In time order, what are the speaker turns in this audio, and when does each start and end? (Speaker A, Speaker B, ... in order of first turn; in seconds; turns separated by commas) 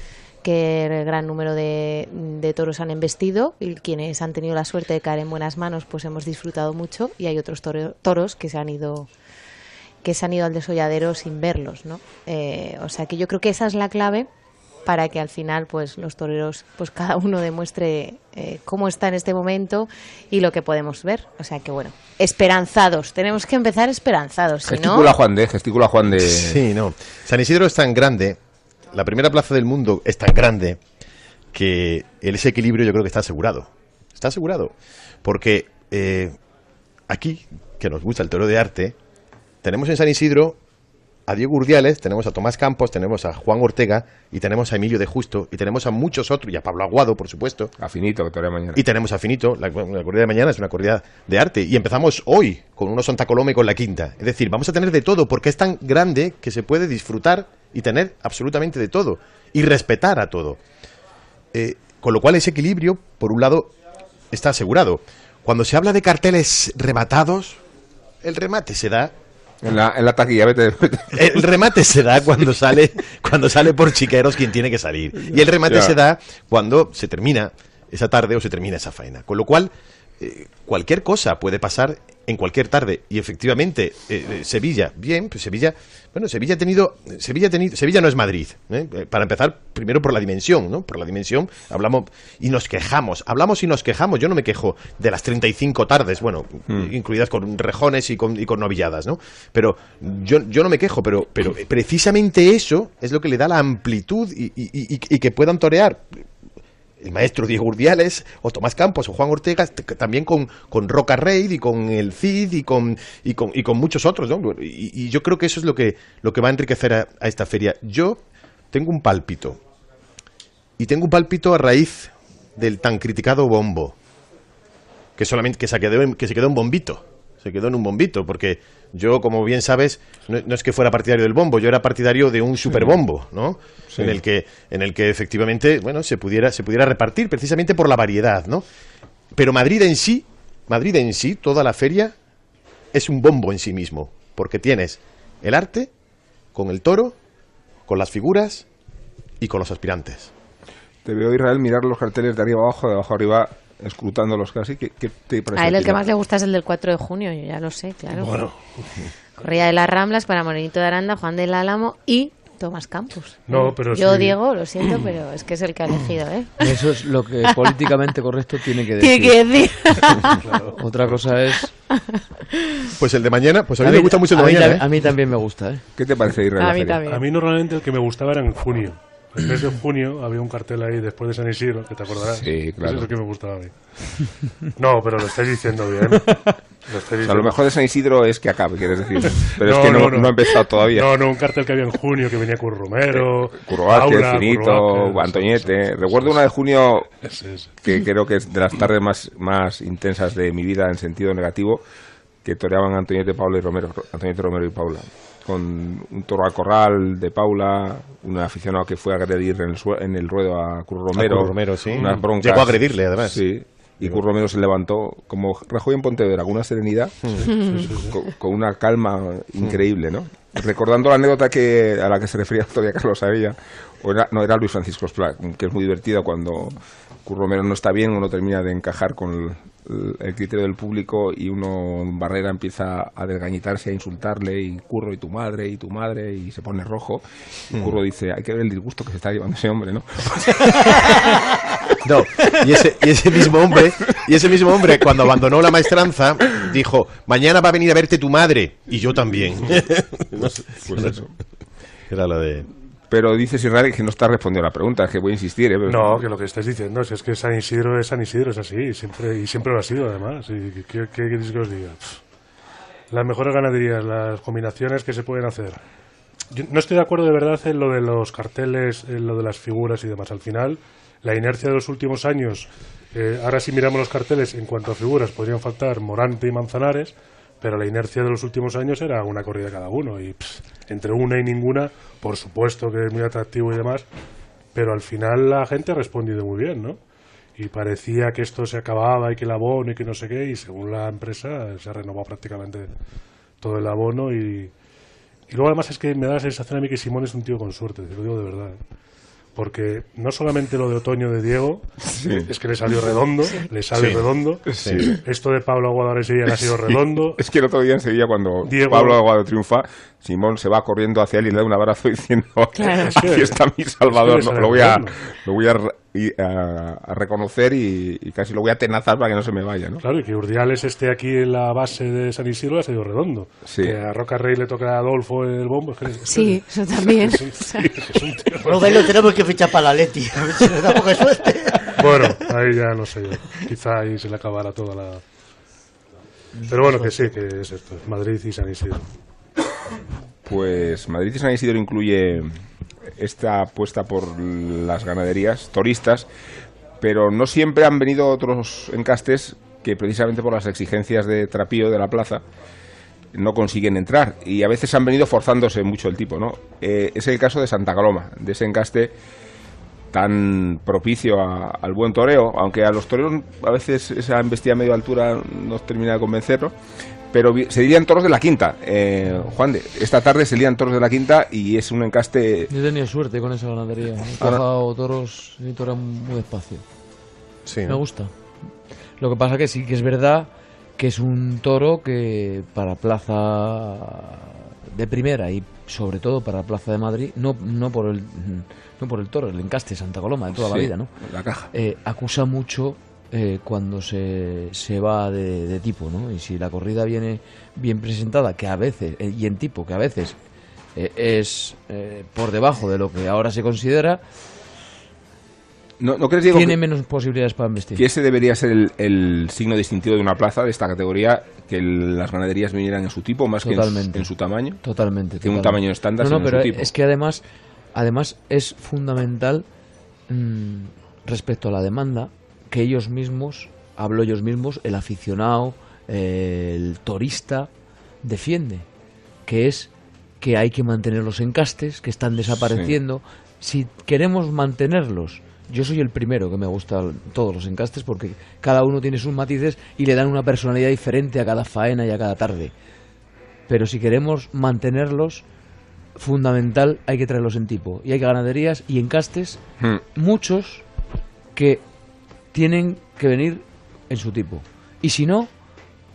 Speaker A: 0.4-9.1, Speaker A: 10.0-14.3, Speaker A: 14.8-25.1, Speaker B: 24.6-26.6, Speaker C: 26.1-28.4, Speaker C: 28.9-30.8, Speaker C: 31.5-34.7, Speaker C: 35.2-36.4, Speaker C: 37.1-39.0, Speaker C: 39.6-40.6, Speaker C: 41.3-47.7, Speaker B: 47.8-48.8, Speaker C: 48.8-60.6, Speaker C: 61.5-63.7, Speaker C: 64.3-67.6, Speaker C: 68.2-69.1, Speaker B: 69.6-71.5, Speaker C: 71.1-106.2, Speaker B: 75.2-76.0, Speaker C: 107.0-119.6, Speaker C: 120.8-124.0, Speaker C: 125.2-138.6, Speaker B: 132.7-133.0, Speaker B: 133.9-134.2, Speaker C: 139.3-142.1, Speaker C: 142.9-145.9, Speaker C: 146.5-147.2, Speaker C: 147.9-148.6, Speaker C: 149.4-150.3, Speaker B: 151.0-156.0, Speaker A: 155.5-158.3, Speaker D: 158.1-159.1, Speaker A: 159.4-166.6, Speaker D: 163.5-164.4, Speaker E: 166.6-169.4, Speaker A: 169.0-170.4, Speaker D: 170.4-170.8, Speaker E: 170.8-171.7, Speaker C: 173.0-174.8, Speaker E: 173.8-175.8, Speaker B: 176.0-177.0, Speaker A: 176.6-177.3, Speaker D: 177.1-187.6, Speaker B: 182.3-183.1, Speaker B: 187.2-191.2, Speaker D: 189.2-196.5, Speaker B: 193.1-197.1, Speaker D: 197.2-197.7, Speaker B: 197.8-201.8, Speaker B: 202.4-237.2, Speaker C: 211.1-213.4, Speaker C: 217.3-217.5, Speaker D: 217.4-218.2, Speaker B: 237.7-241.3, Speaker C: 240.9-241.2, Speaker C: 242.0-251.2, Speaker B: 250.3-251.3, Speaker C: 252.1-252.7, Speaker B: 253.1-256.2, Speaker D: 255.8-262.2, Speaker D: 263.1-265.8, Speaker D: 266.5-284.1, Speaker D: 284.7-287.0, Speaker D: 287.5-292.9, Speaker D: 293.6-294.7, Speaker D: 295.5-298.8, Speaker D: 299.5-307.4, Speaker B: 302.1-302.5, Speaker C: 303.9-305.2, Speaker B: 304.7-305.2, Speaker B: 306.6-320.0, Speaker D: 308.6-309.2, Speaker A: 312.8-313.1, Speaker D: 312.9-315.2, Speaker D: 320.0-329.1, Speaker B: 323.6-323.9, Speaker A: 326.3-327.9, Speaker F: 328.6-332.0, Speaker D: 331.8-335.2, Speaker E: 336.6-337.1, Speaker D: 336.6-339.1, Speaker B: 340.4-342.6, Speaker B: 343.1-346.3, Speaker B: 347.0-352.4, Speaker B: 353.3-359.1, Speaker B: 360.1-366.7, Speaker B: 367.3-372.7, Speaker E: 372.7-376.8, Speaker C: 377.6-378.0, Speaker E: 377.9-378.3, Speaker E: 379.2-391.1, Speaker B: 390.5-391.7, Speaker E: 391.7-400.4, Speaker E: 400.9-404.2, Speaker B: 406.0-406.8, Speaker E: 406.5-408.0, Speaker B: 407.9-414.8, Speaker E: 413.6-414.3, Speaker E: 414.8-417.4, Speaker B: 415.4-416.9, Speaker E: 417.9-419.6, Speaker E: 420.3-427.7, Speaker E: 428.2-428.9, Speaker E: 429.4-442.7, Speaker E: 443.7-445.4, Speaker E: 446.2-449.6, Speaker E: 450.1-450.9, Speaker E: 451.5-451.8, Speaker E: 452.5-455.5